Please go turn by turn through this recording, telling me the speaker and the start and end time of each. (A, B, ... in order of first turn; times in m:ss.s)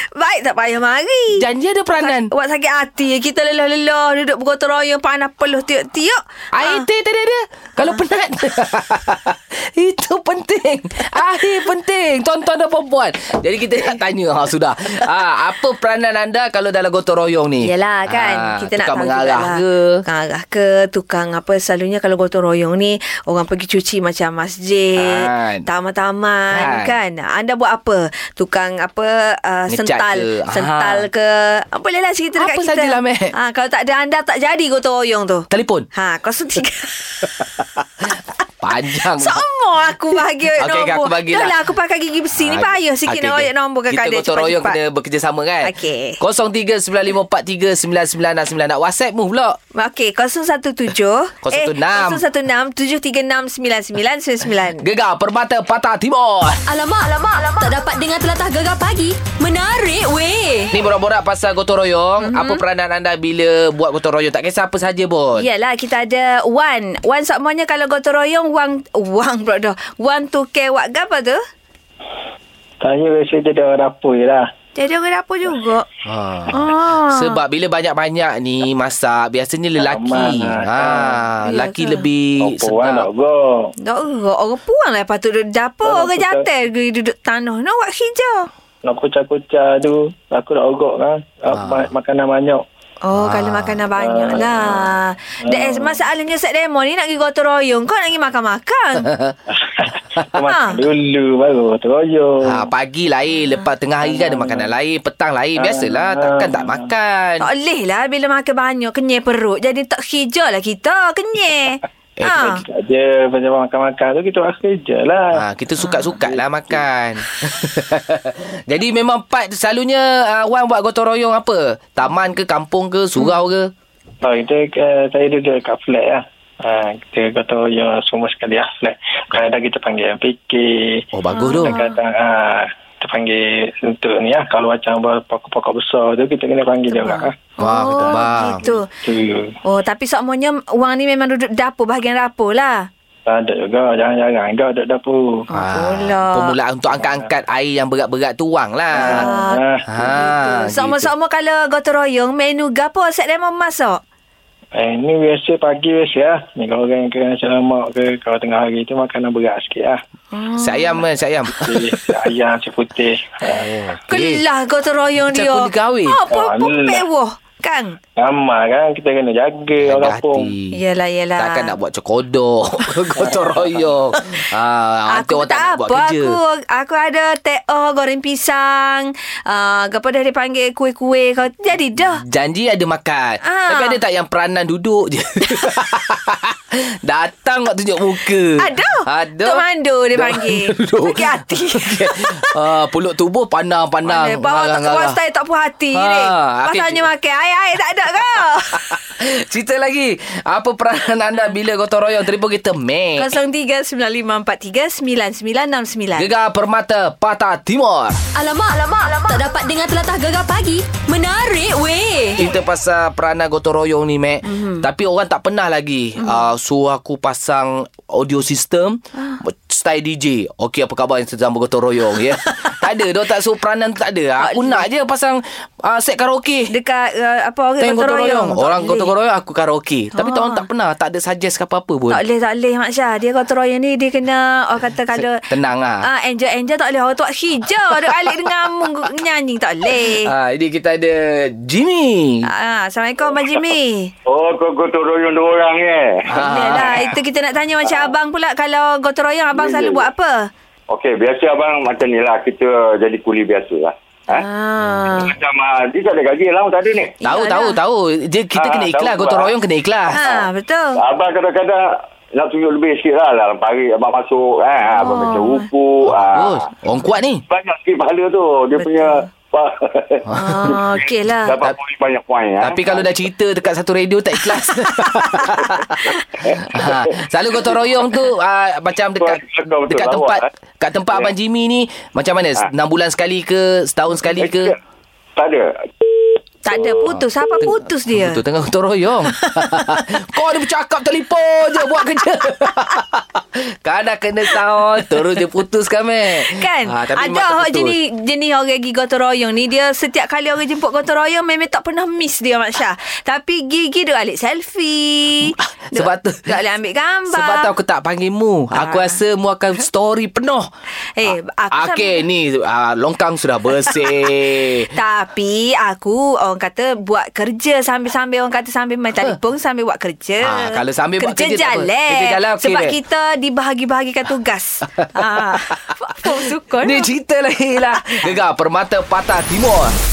0:00.1-0:01.4 A
0:01.3-0:02.3 B
0:02.0-0:06.8 A
0:06.5-0:20.0 B
0:17.6-0:37.3 A
0:25.0-0:25.7 B
0:26.5-0:26.9 B
0:29.7-0:31.0 B
0:32.4-0:33.3 B
0:35.5-0:35.8 B
0:38.6-0:39.4 B
0:39.1-0:44.8 A
0:40.6-0:41.5 B
0:42.4-0:49.6 B
0:45.6-0:46.2 A
0:49.7-0:54.8 A
0:51.4-0:52.2 B
0:54.8-0:56.6 B
0:56.6-1:00.7 C
1:00.7-1:05.4 B
1:02.2-1:02.6 A
1:05.3-1:11.4 A
1:12.8-1:14.5 D
1:14.8-1:15.8 A
1:16.0-1:23.0 B
1:16.5-1:17.4 A
1:19.8-1:21.2 D
1:21.4-1:22.0 A
1:22.4-1:23.7 D
1:23.8-1:28.5 A
1:25.8-1:26.5 D
1:28.8-1:32.6 D
1:31.5-1:31.9 B
1:33.0-1:39.1 A
1:33.2-1:33.8 B
1:33.9-1:36.0 D
1:39.0-1:39.4 B
1:39.5-1:42.6 D
1:40.4-1:40.8 A
1:42.4-1:47.5 B
1:44.0-1:44.7 D
1:45.6-1:46.8 D
1:47.4-1:52.6 A
1:52.2-1:52.5 B
1:52.3-1:55.4 D
1:55.4-2:03.7 B
2:04.2-2:19.5 D
2:11.1-2:11.7 B
2:11.3-2:12.0 A
2:16.9-2:18.8 A
2:17.6-2:18.6 B
2:19.6-2:22.9 A
2:23.3-2:25.4 D
2:25.5-2:26.5 A
2:25.5-2:29.3 B
2:28.9-2:30.2 D
2:28.9-2:34.0 A
2:29.9-2:31.1 B
2:34.7-2:40.0 D
2:40.3-2:41.0 A
2:40.6-2:42.0 B
2:41.6-2:43.6 D
2:43.4-2:44.4 B
2:44.1-2:48.0 A
2:45.3-2:46.2 B
2:46.3-2:47.0 D
2:48.2-2:50.5 D
2:49.8-2:50.8 B
2:50.7-2:51.8 A
2:51.4-2:56.4 B
2:55.1-3:02.2 A
3:02.0-3:15.2 B
3:03.4-3:04.0 A
3:08.6-3:12.5 A
3:14.0-3:19.0 A
3:15.9-3:17.0 B
3:18.3-3:23.3 B
3:23.2-3:26.3 A
3:26.2-3:28.2 B
3:28.3-3:32.4 C
3:32.4-3:46.7 B
3:34.4-3:34.8 A
3:36.2-3:36.5 A
3:44.4-3:44.8 A
3:46.7-3:49.1 A
3:47.8-3:52.2 B
3:50.1-3:50.6 A
3:52.1-3:55.5 A
3:55.2-3:56.0 B
3:56.0-4:00.3 A
3:57.9-3:58.4 B
4:00.1-4:02.5 B
4:02.4-4:04.1 A
4:04.2-4:07.0 E
4:06.3-4:07.2 B
4:06.3-4:10.3 A
4:07.8-4:08.1 E
4:09.5-4:10.1 E
4:10.9-4:14.4 E
4:14.3-4:15.3 A
4:15.2-4:17.2 E
4:17.2-4:17.8 A
4:17.2-4:20.2 B
4:18.6-4:19.6 E
4:20.1-4:26.7 E
4:20.1-4:21.0 A
4:25.0-4:25.7 A
4:26.0-4:27.4 B
4:27.5-4:33.2 E
4:28.8-4:29.2 A
4:30.3-4:30.6 B
4:30.3-4:31.6 A
4:32.6-4:36.1 B
4:34.9-4:35.5 A
4:36.4-4:37.2 E
4:36.7-4:44.7 B
4:39.2-4:40.5 E
4:44.3-4:44.8 E
4:45.4-4:45.9 E
4:46.6-4:48.4 A
4:46.8-4:58.0 B
4:49.3-4:50.0 A
4:56.4-5:07.7 A
5:05.4-5:06.5 B
5:07.3-5:10.7 B
5:08.7-5:09.2 A
5:11.2-5:12.2 A
5:11.2-5:14.9 B
5:13.8-5:14.2 A
5:14.9-5:27.1 A
5:20.4-5:23.0 B
5:25.0-5:29.9 B